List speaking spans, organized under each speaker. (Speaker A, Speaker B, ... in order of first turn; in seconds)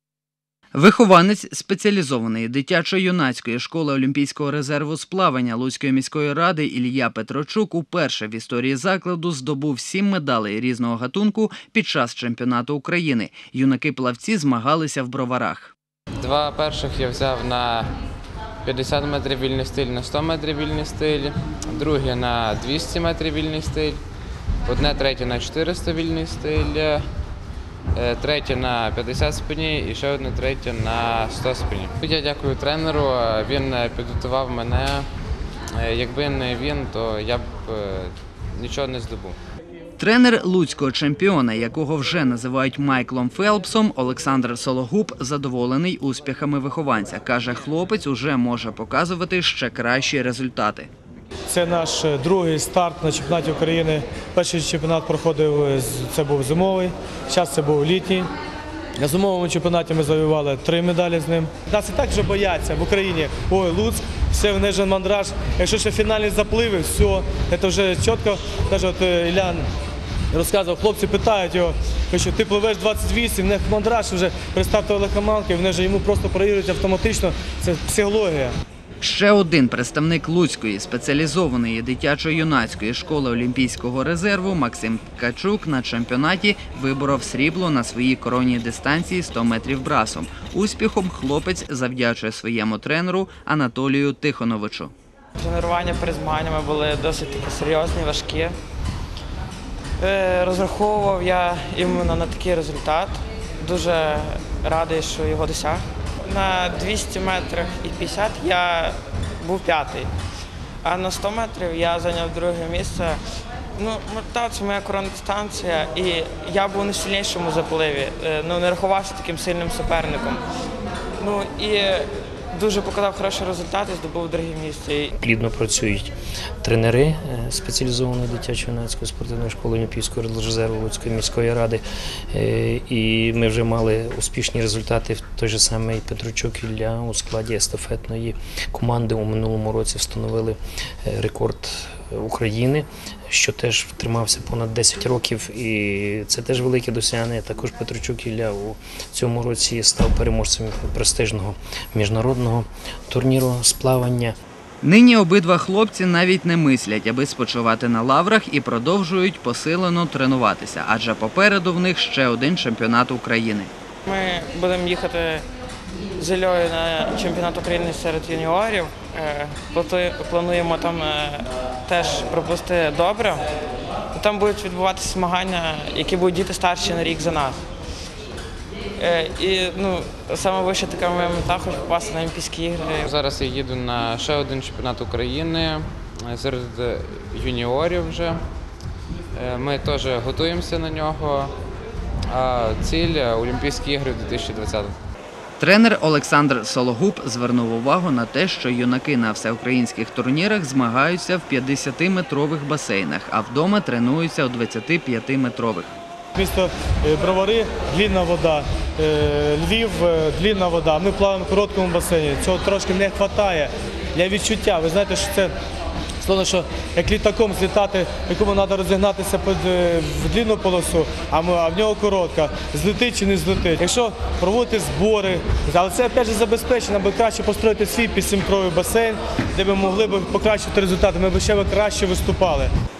Speaker A: 0.7-15.7, 40.0-50.9, 79.0-94.9, 154.8-163.7, 195.6-205.9
Speaker B: 16.2-17.9, 18.6-24.0, 24.6-27.0, 27.9-35.0, 35.8-39.4, 183.1-188.4, 189.3-191.5, 192.3-194.9
Speaker C: 51.5-58.3, 59.0-69.7, 70.3-78.5, 206.3-215.5, 216.2-232.7
Speaker D: 95.4-98.5, 100.0-103.1, 103.6-110.1, 110.8-113.2, 113.8-120.4, 121.2-125.0, 164.6-165.2, 166.3-170.9, 171.9-173.4, 174.2-177.6, 179.0-182.9
Speaker E: 125.2-154.3